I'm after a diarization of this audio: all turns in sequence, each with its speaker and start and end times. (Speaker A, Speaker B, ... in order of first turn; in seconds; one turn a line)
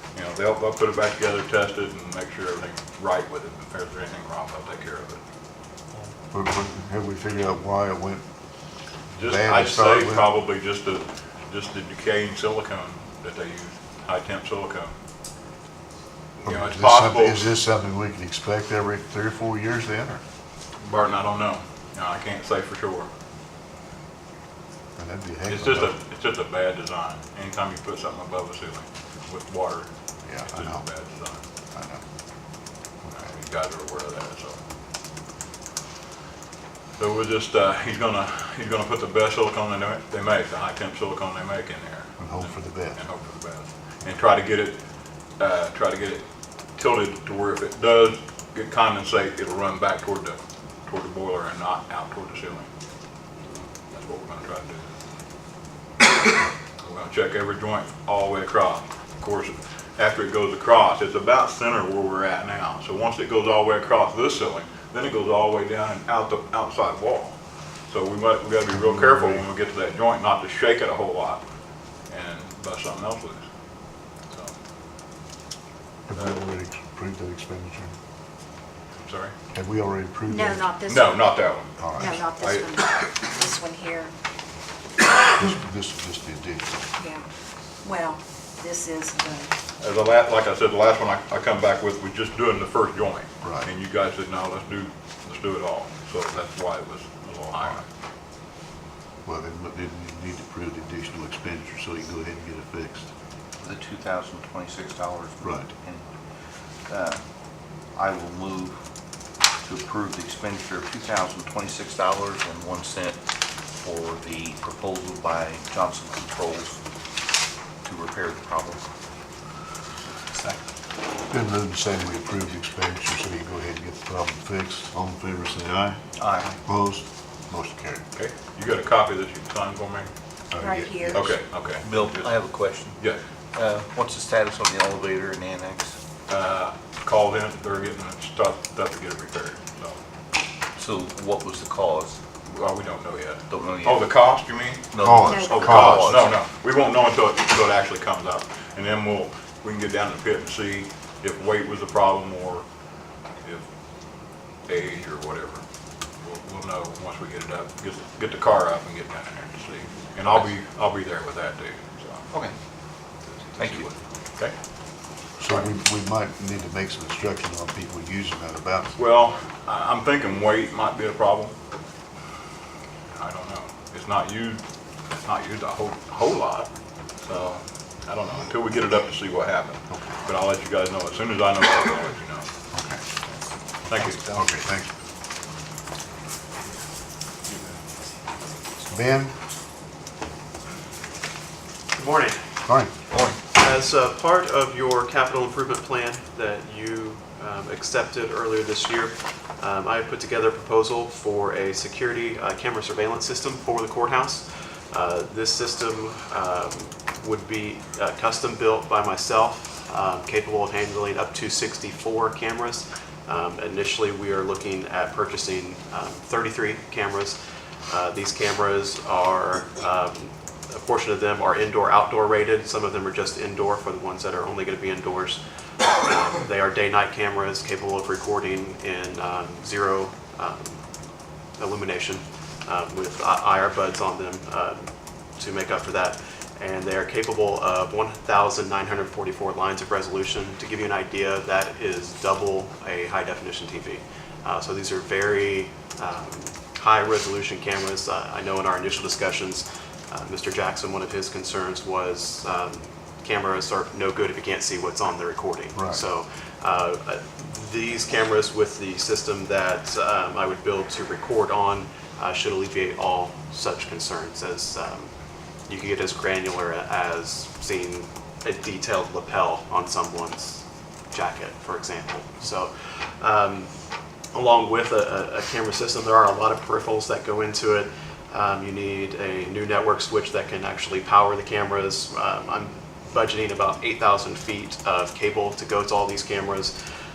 Speaker A: 0.1-5.2
Speaker B: 6.3-8.2
Speaker B: 9.2-10.3
Speaker A: 9.2-14.9
Speaker A: 16.4-17.5
Speaker B: 16.4-20.2
Speaker A: 20.8-23.1
Speaker B: 25.0-25.9
Speaker A: 25.5-29.9
Speaker B: 30.2-30.8
Speaker A: 30.4-31.4
Speaker B: 31.7-32.0
Speaker A: 33.1-34.6
Speaker A: 37.0-44.8
Speaker B: 42.2-43.0
Speaker A: 45.4-46.2
Speaker A: 46.8-52.7
Speaker A: 53.5-54.9
Speaker A: 56.8-67.3
Speaker A: 67.9-71.4
Speaker B: 68.7-69.4
Speaker A: 72.1-73.4
Speaker A: 74.3-74.5
Speaker B: 76.1-77.9
Speaker A: 79.0-79.3
Speaker B: 79.5-80.7
Speaker C: 80.3-81.2
Speaker A: 80.8-82.9
Speaker B: 81.8-82.2
Speaker C: 82.0-84.1
Speaker B: 85.3-86.8
Speaker C: 87.0-87.2
Speaker C: 87.8-89.5
Speaker A: 89.8-97.8
Speaker B: 93.4-93.7
Speaker B: 99.2-103.1
Speaker D: 103.6-107.2
Speaker B: 105.4-105.7
Speaker D: 107.9-108.8
Speaker D: 109.6-116.8
Speaker D: 117.8-118.8
Speaker B: 121.3-126.0
Speaker D: 126.2-126.6
Speaker B: 126.6-128.0
Speaker A: 128.1-130.1
Speaker B: 130.5-131.3
Speaker C: 130.6-131.2
Speaker A: 131.1-132.3
Speaker D: 131.8-133.0
Speaker D: 133.5-136.0
Speaker A: 136.3-140.0
Speaker D: 140.8-142.2
Speaker A: 142.4-152.6
Speaker D: 143.5-144.1
Speaker D: 144.9-146.3
Speaker B: 145.0-146.1
Speaker C: 145.2-145.6
Speaker A: 154.7-155.6
Speaker A: 156.2-162.3
Speaker A: 163.5-164.0
Speaker D: 163.6-164.5
Speaker B: 165.4-168.9
Speaker A: 168.9-171.5
Speaker A: 173.1-176.7
Speaker A: 177.2-182.5
Speaker B: 182.7-183.0
Speaker A: 183.9-184.3
Speaker B: 184.3-184.9
Speaker B: 188.9-189.3
Speaker E: 191.9-192.4
Speaker B: 192.7-192.9
Speaker D: 193.1-193.4
Speaker E: 193.5-225.4
Speaker E: 226.0-230.8
Speaker E: 231.6-265.1
Speaker B: 255.7-256.0
Speaker E: 265.7-273.7
Speaker E: 274.3-286.7